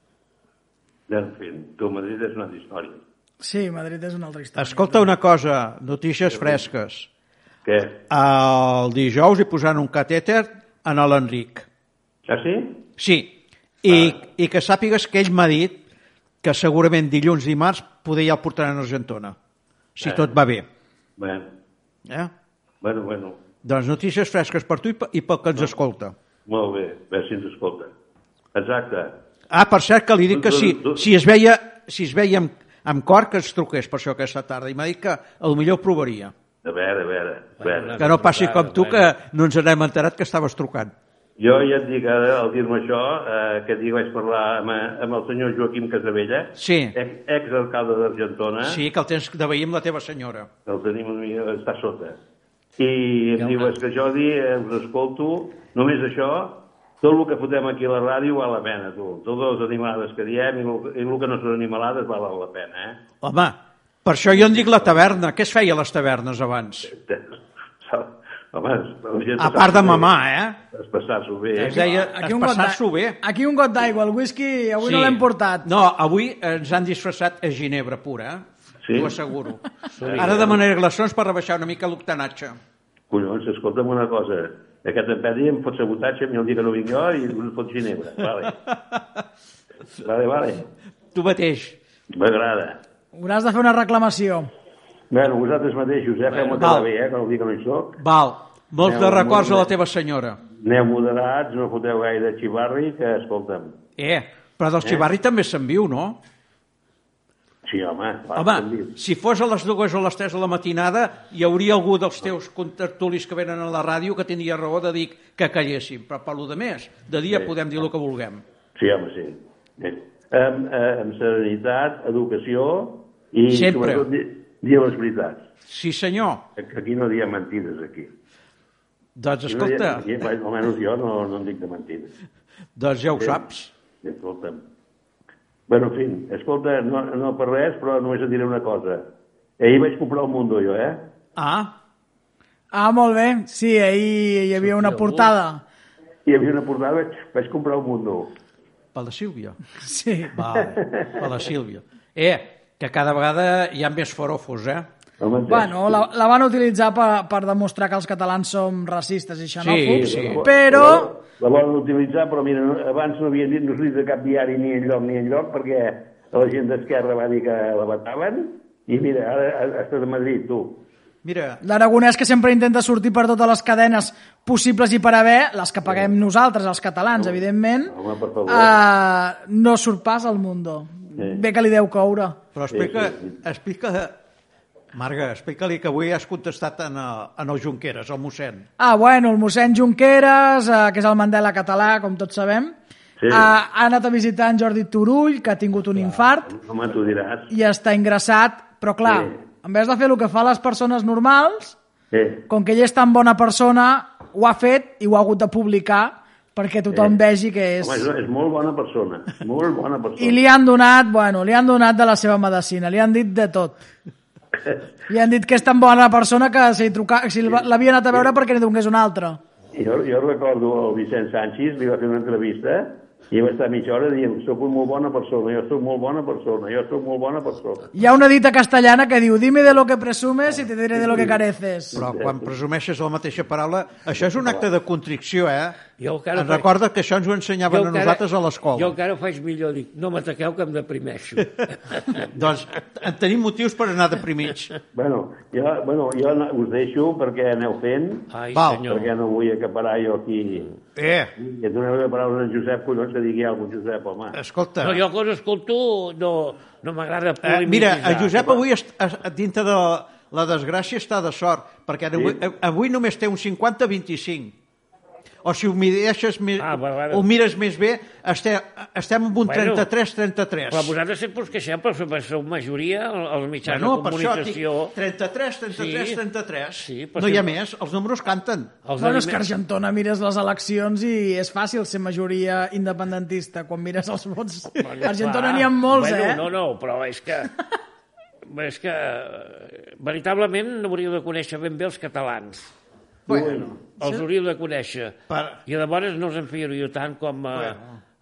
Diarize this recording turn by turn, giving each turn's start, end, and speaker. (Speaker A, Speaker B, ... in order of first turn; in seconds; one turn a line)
Speaker A: 1.1-3.0
Speaker B: 3.4-5.0
Speaker C: 4.6-7.1
Speaker A: 6.3-6.6
Speaker A: 7.7-8.0
Speaker C: 8.1-11.7
Speaker A: 12.3-12.8
Speaker C: 13.0-15.8
Speaker A: 13.9-14.2
Speaker C: 16.4-19.4
Speaker C: 20.0-20.7
Speaker A: 20.0-20.3
Speaker A: 21.2-21.5
Speaker A: 22.8-23.4
Speaker C: 23.6-26.1
Speaker A: 26.5-27.9
Speaker A: 28.6-29.1
Speaker C: 29.5-36.3
Speaker A: 30.3-31.1
Speaker A: 36.6-38.1
Speaker D: 37.6-39.1
Speaker C: 38.0-40.9
Speaker A: 41.4-48.8
Speaker C: 46.6-46.9
Speaker C: 48.6-50.5
Speaker A: 50.7-52.2
Speaker A: 52.8-63.0
Speaker D: 53.4-53.8
Speaker C: 63.2-66.9
Speaker A: 64.3-65.1
Speaker A: 66.9-70.2
Speaker C: 69.4-70.6
Speaker A: 70.7-72.0
Speaker C: 71.6-73.2
Speaker B: 71.6-75.7
Speaker C: 74.8-82.6
Speaker A: 78.8-79.2
Speaker D: 79.9-80.6
Speaker A: 80.0-80.6
Speaker A: 83.1-88.6
Speaker C: 88.5-89.2
Speaker A: 90.0-90.7
Speaker C: 91.1-91.8
Speaker A: 92.1-92.8
Speaker B: 93.2-94.5
Speaker A: 95.1-98.0
Speaker C: 96.5-96.9
Speaker C: 98.0-100.4
Speaker A: 98.8-99.7
Speaker A: 100.6-103.8
Speaker C: 104.0-106.2
Speaker A: 107.7-109.0
Speaker C: 108.3-118.4
Speaker A: 118.8-125.5
Speaker C: 123.5-124.1
Speaker C: 125.7-126.4
Speaker A: 126.6-128.1
Speaker C: 129.2-130.1
Speaker A: 129.5-132.1
Speaker C: 132.8-133.7
Speaker A: 134.0-134.6
Speaker A: 135.7-139.0
Speaker A: 139.6-141.0
Speaker C: 141.4-141.7
Speaker B: 142.7-145.6
Speaker D: 144.6-145.3
Speaker A: 146.3-148.3
Speaker C: 148.9-149.6
Speaker B: 149.8-150.4
Speaker C: 150.3-154.9
Speaker A: 150.6-151.3
Speaker A: 155.2-156.0
Speaker B: 155.5-161.1
Speaker C: 159.6-160.4
Speaker A: 159.8-170.8
Speaker C: 171.2-171.6
Speaker B: 171.6-177.9
Speaker A: 175.8-176.1
Speaker A: 177.1-178.8
Speaker B: 178.5-182.4
Speaker A: 181.2-181.4
Speaker C: 182.5-184.2
Speaker A: 182.7-183.4
Speaker C: 184.9-188.7
Speaker B: 188.8-192.8
Speaker A: 193.2-193.5
Speaker B: 193.3-196.5
Speaker A: 196.4-197.5
Speaker B: 197.5-201.8
Speaker A: 199.0-199.4
Speaker A: 202.1-202.4
Speaker B: 202.5-208.1
Speaker A: 206.9-207.2
Speaker A: 207.8-210.4
Speaker B: 210.2-213.8
Speaker B: 215.1-219.4
Speaker A: 217.4-218.3
Speaker A: 219.7-227.9
Speaker B: 227.9-232.0
Speaker A: 230.9-231.4
Speaker A: 231.9-232.5
Speaker C: 231.9-235.8
Speaker A: 234.2-234.7
Speaker D: 236.0-236.7
Speaker C: 236.3-238.9
Speaker D: 237.7-238.2
Speaker D: 238.7-242.3
Speaker C: 242.1-244.7
Speaker A: 244.9-248.3
Speaker D: 248.3-249.1
Speaker C: 248.5-248.8
Speaker A: 248.9-250.7
Speaker C: 251.0-251.3
Speaker A: 251.4-254.4
Speaker C: 254.3-255.0
Speaker D: 254.8-258.6
Speaker C: 257.4-264.6
Speaker C: 265.4-270.9
Speaker D: 266.6-267.3
Speaker D: 269.5-269.9
Speaker D: 270.7-274.9
Speaker C: 273.6-278.8
Speaker D: 275.7-276.2
Speaker D: 276.8-277.5
Speaker D: 278.8-279.5
Speaker B: 279.0-286.4
Speaker D: 284.8-287.5
Speaker D: 288.5-292.7
Speaker A: 293.3-293.8
Speaker C: 293.3-293.8
Speaker D: 294.0-297.8
Speaker C: 295.3-295.6
Speaker C: 297.5-297.9